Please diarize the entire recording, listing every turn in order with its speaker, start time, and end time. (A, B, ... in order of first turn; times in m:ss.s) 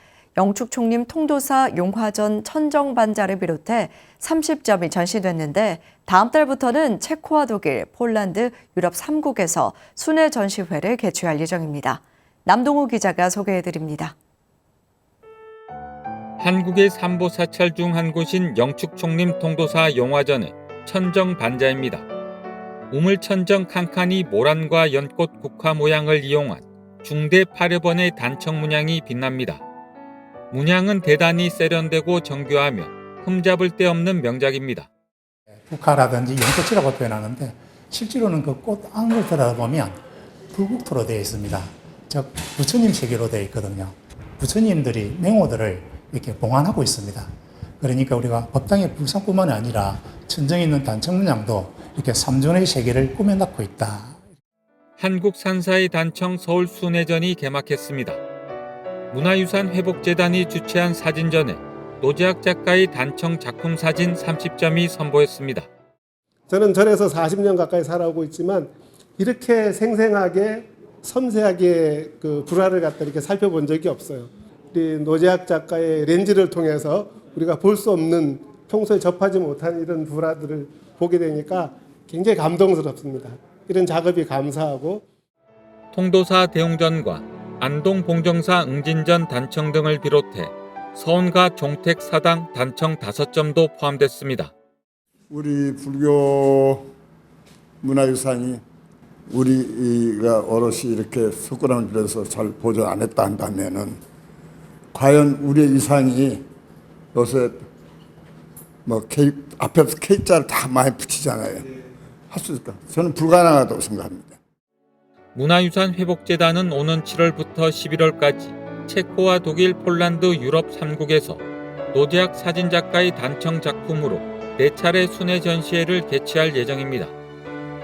0:00.4-0:14.1 A
0:16.4-0:22.0 B
0:22.9-0:29.6 B
0:30.5-0:34.9 B
0:35.7-0:40.0 C
0:40.5-0:47.3 C
0:47.8-0:54.2 C
0:55.0-0:58.2 B
0:59.1-1:05.7 B
1:06.5-1:25.0 D
1:25.9-1:34.5 B
1:35.3-1:36.8 E
1:37.8-1:38.6 E
1:39.3-1:44.0 E
1:44.9-1:46.4 E
1:47.1-1:47.6 E
1:48.8-1:51.6 E
1:52.3-1:54.4 E
1:55.3-2:07.1 B